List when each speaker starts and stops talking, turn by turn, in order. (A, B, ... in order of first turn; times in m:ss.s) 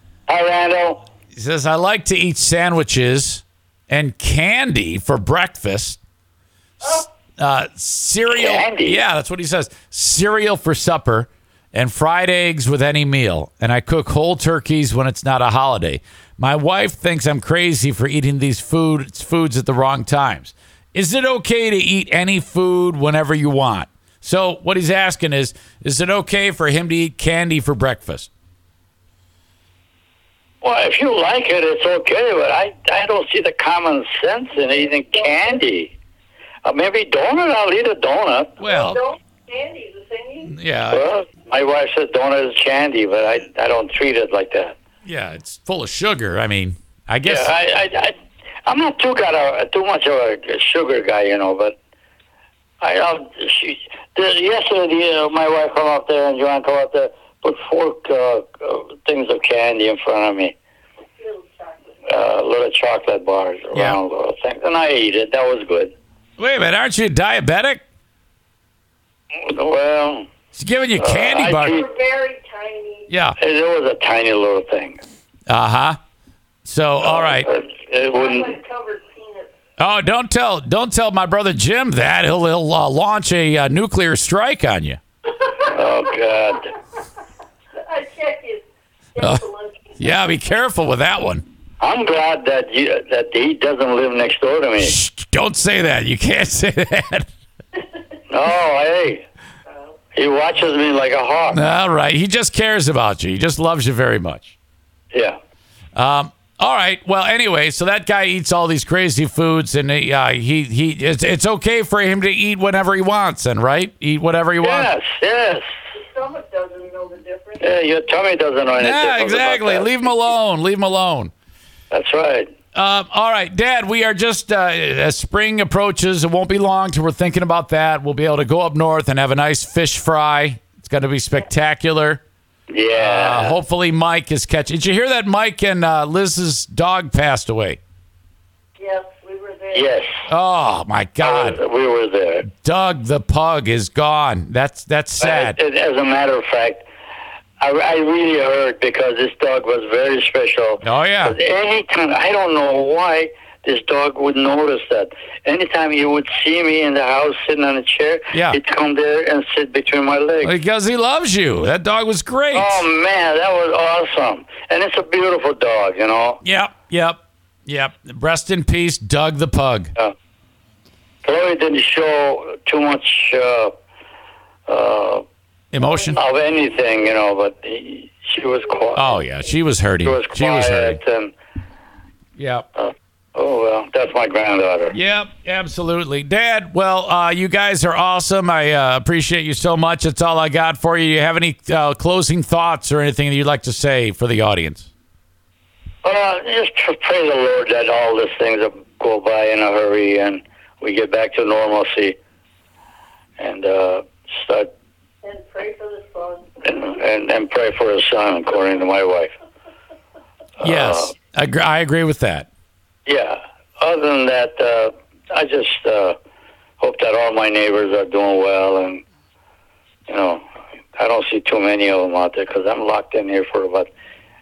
0:00.3-0:01.0 A
0:01.4-0:06.0 B
0:06.9-0:28.3 B
0:08.3-0:09.0 A
0:30.6-0:36.0 A
0:36.6-0:39.0 A
0:38.6-0:39.0 B
0:38.7-0:40.5 C
0:40.5-0:41.0 B
0:40.9-0:44.8 A
0:45.0-0:47.5 B
0:47.2-0:48.2 A
0:48.7-0:51.8 A
0:52.8-1:00.6 A
1:01.2-1:02.0 C
1:02.1-1:05.9 A
1:03.7-1:04.0 B
1:06.4-1:07.8 B
1:09.4-1:10.3 A
1:10.5-1:11.8 B
1:11.0-1:11.9 A
1:11.6-1:13.1 C
1:13.1-1:13.4 B
1:13.4-1:15.0 A
1:15.5-1:16.0 B
1:16.7-1:17.5 B
1:17.0-1:18.6 A
1:18.1-1:19.5 C
1:19.8-1:25.0 B
1:25.6-1:26.7 A
1:27.9-1:28.6 C
1:29.2-1:29.8 C
1:29.2-1:29.4 B
1:30.0-1:31.4 B
1:31.8-1:35.0 A
1:34.8-1:37.3 B
1:38.3-1:39.2 A
1:40.1-1:41.6 A
1:41.5-1:44.6 B
1:45.1-1:45.4 A
1:46.0-1:54.9 B
1:54.6-1:55.7 A
1:56.0-1:57.7 C
1:57.6-2:00.1 A
1:58.8-2:01.3 B
2:01.9-2:02.5 A
2:02.7-2:12.2 B
2:12.7-2:13.6 A
2:12.9-2:17.8 B
2:18.8-2:19.9 C
2:19.7-2:20.3 A
2:20.3-2:21.6 B
2:21.2-2:22.5 A
2:22.5-2:25.6 B
2:25.2-2:26.9 A
2:27.6-2:40.5 A
2:30.8-2:31.4 B
2:38.3-2:38.6 B
2:40.4-2:42.9 B
2:42.5-2:46.4 A
2:46.4-2:49.9 B
2:51.2-2:53.7 A
2:54.7-2:55.2 A
2:55.7-2:56.2 B
2:56.1-2:59.2 A
2:59.0-3:01.0 B
3:00.0-3:01.3 A
3:02.4-3:02.7 B
3:02.8-3:05.0 A
3:04.9-3:14.9 B
3:16.0-3:22.2 A
3:23.4-3:24.7 A
3:25.2-3:26.4 C
3:26.6-3:29.3 A
3:30.6-3:31.1 A
3:30.6-3:32.5 B
3:33.1-3:36.2 A
3:36.8-3:39.0 A
3:40.1-3:40.4 A
3:41.0-3:43.9 A